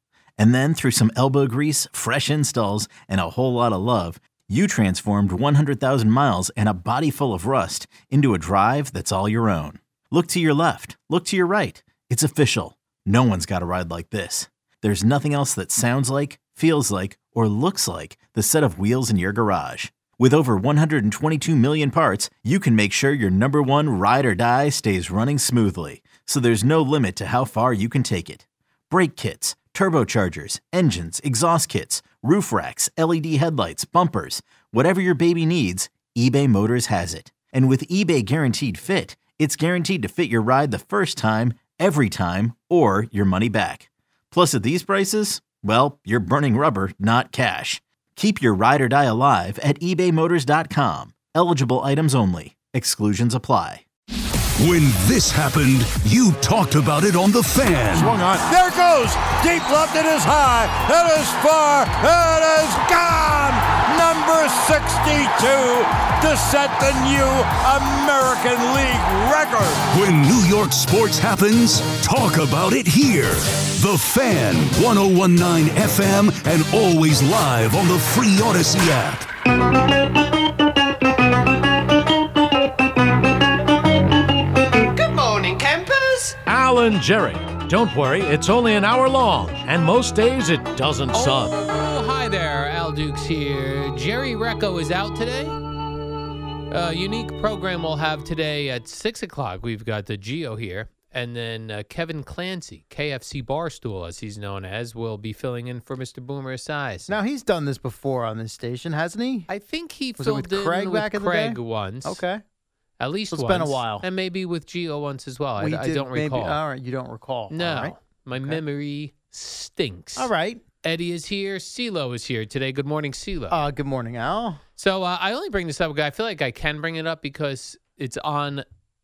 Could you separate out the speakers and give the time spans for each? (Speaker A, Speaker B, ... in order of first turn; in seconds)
Speaker A: 0.4-53.8
Speaker B: 54.6-58.2, 69.9-79.3
Speaker C: 57.9-69.9
Speaker D: 84.9-91.6
Speaker E: 91.1-95.6, 96.7-107.2, 109.5-112.2, 113.0-116.6, 117.5-120.3, 120.8-123.6, 124.8-128.7
Speaker F: 107.1-109.5, 110.2-112.4, 113.3-114.0, 115.6-118.6, 120.2-120.6, 123.5-124.6